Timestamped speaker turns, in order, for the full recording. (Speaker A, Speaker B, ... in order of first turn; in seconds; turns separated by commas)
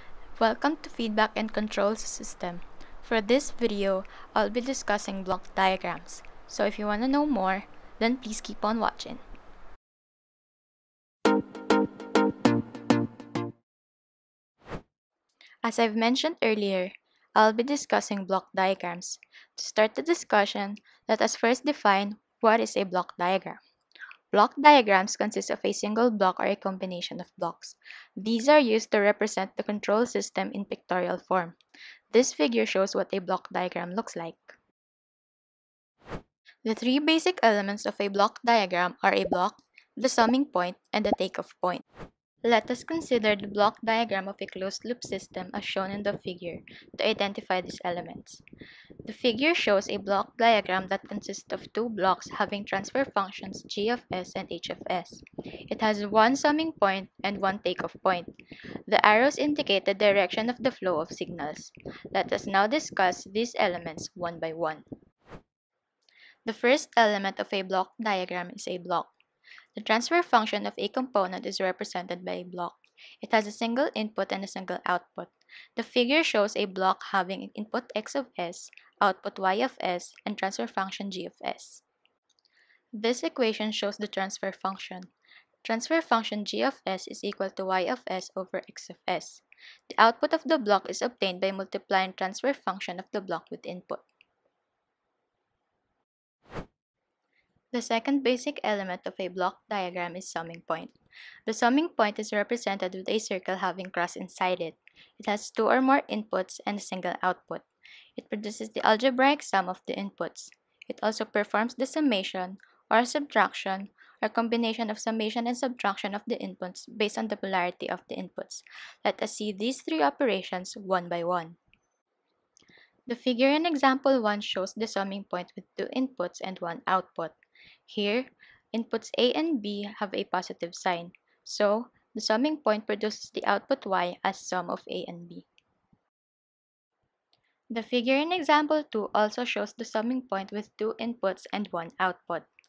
Speaker A: 0.4-9.2, Speaker A: 15.6-23.6, Speaker A: 24.3-31.6, Speaker A: 32.1-34.6, Speaker A: 36.6-41.8, Speaker A: 42.4-48.4, Speaker A: 49.0-58.4, Speaker A: 58.9-64.8, Speaker A: 66.5-69.1, Speaker A: 69.8-81.8, Speaker A: 83.0-85.1, Speaker A: 85.6-94.0, Speaker A: 97.7-101.0, Speaker A: 101.5-107.7, Speaker A: 108.2-121.6, Speaker A: 123.1-127.3, Speaker A: 127.9-135.5, Speaker A: 137.7-142.5